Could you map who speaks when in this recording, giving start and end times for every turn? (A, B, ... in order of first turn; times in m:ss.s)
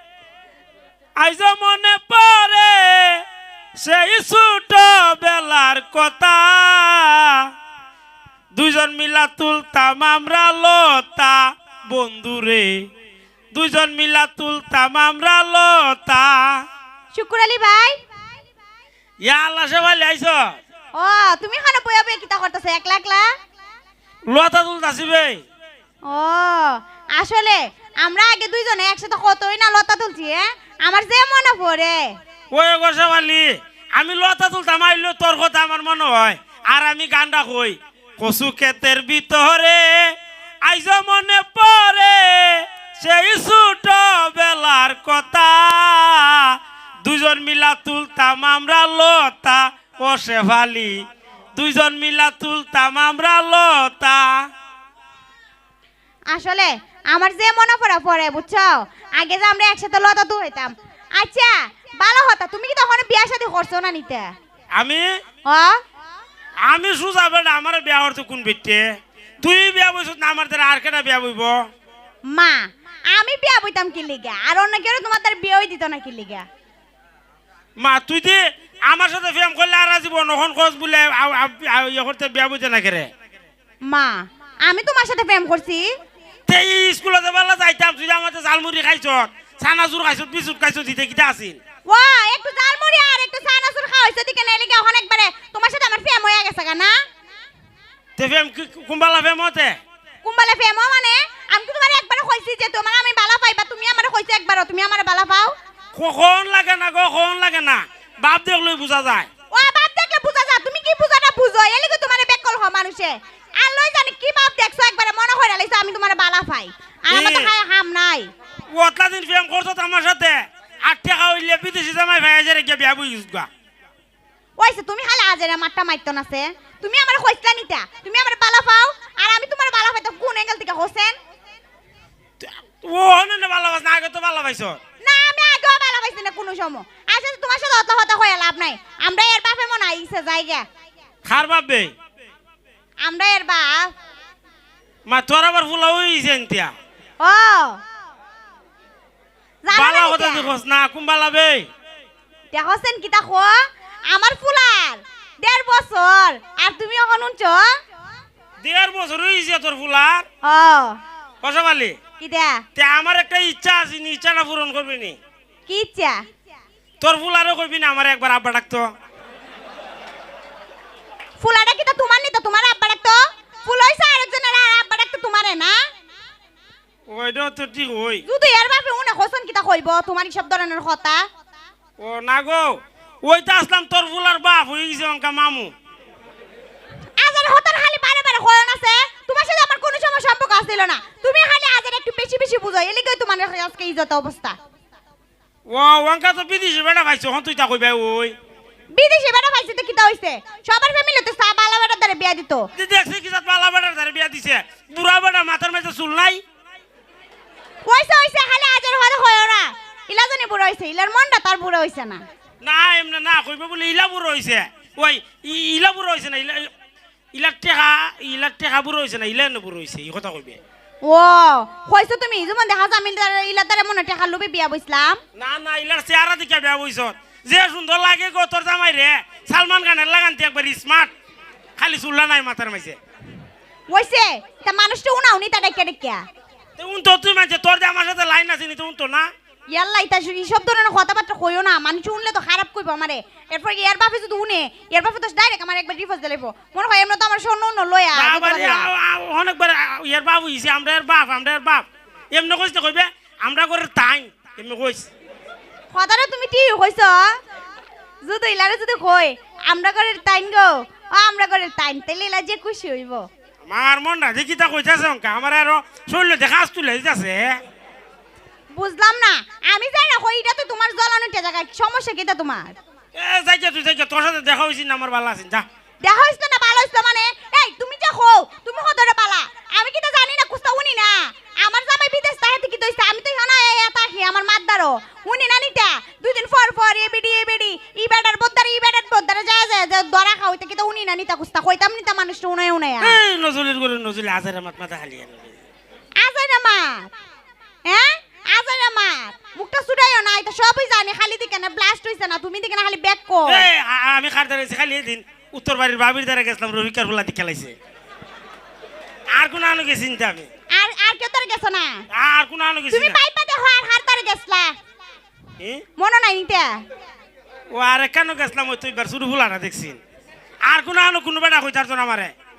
0:01.2-0:03.1 A
0:03.8-0:07.4 A
0:08.5-0:12.8 A
0:13.5-0:16.6 A
0:17.1-0:18.0 B
0:19.2-0:20.6 A
0:20.9-0:23.3 B
0:24.3-0:25.4 A
0:26.0-0:32.1 B
0:32.5-0:40.0 A
0:40.6-0:46.5 A
0:47.0-0:51.0 A
0:51.6-0:54.4 A
0:56.3-1:04.3 B
1:04.8-1:05.0 A
1:05.4-1:05.8 B
1:06.6-1:08.9 A
1:09.4-1:11.7 A
1:12.3-1:16.4 B
1:17.8-1:23.1 A
1:23.8-1:25.9 B
1:26.5-1:31.6 A
1:31.9-1:36.9 B
1:38.2-1:39.8 A
1:40.2-1:45.5 B
1:45.9-1:49.3 A
1:49.5-1:58.3 B
1:57.1-1:57.5 A
1:58.7-2:03.5 A
2:04.6-2:11.2 B
2:12.4-2:14.8 A
2:15.0-2:20.6 B
2:21.2-2:21.9 A
2:23.0-2:23.9 B
2:25.0-2:26.7 A
2:27.2-2:27.8 B
2:29.6-2:30.5 B
2:29.7-2:31.7 A
2:32.5-2:37.7 B
2:38.6-2:40.2 A
2:40.4-2:41.0 B
2:41.4-2:42.0 A
2:42.2-2:42.6 B
2:42.8-2:45.2 A
2:45.7-2:46.2 B
2:47.0-2:48.9 A
2:51.4-2:55.8 B
2:57.1-2:58.2 A
2:58.2-3:01.3 B
3:02.0-3:05.7 A
3:07.2-3:14.6 B
3:15.7-3:18.3 A
3:18.9-3:22.7 B
3:22.7-3:26.4 A
3:27.8-3:32.2 B
3:32.6-3:36.7 A
3:37.3-3:40.6 A
3:41.0-3:45.2 B
3:45.3-3:51.1 A
3:51.8-3:53.0 A
3:53.9-3:56.2 B
3:56.8-3:59.3 A
3:59.7-4:08.9 B
4:08.1-4:15.1 A
4:15.9-4:17.4 B
4:18.2-4:23.3 B
4:23.7-4:27.6 A
4:28.7-4:32.7 B
4:33.1-4:35.7 A
4:36.0-4:53.2 B
4:53.0-4:55.6 A
4:56.2-4:57.1 B
4:57.8-5:03.6 B
5:03.5-5:07.8 A
5:09.3-5:10.5 A
5:10.7-5:12.0 B
5:12.1-5:13.2 A
5:12.9-5:14.7 B
5:15.6-5:15.8 A
5:16.0-5:16.8 B
5:17.7-5:20.0 A
5:20.6-5:22.3 A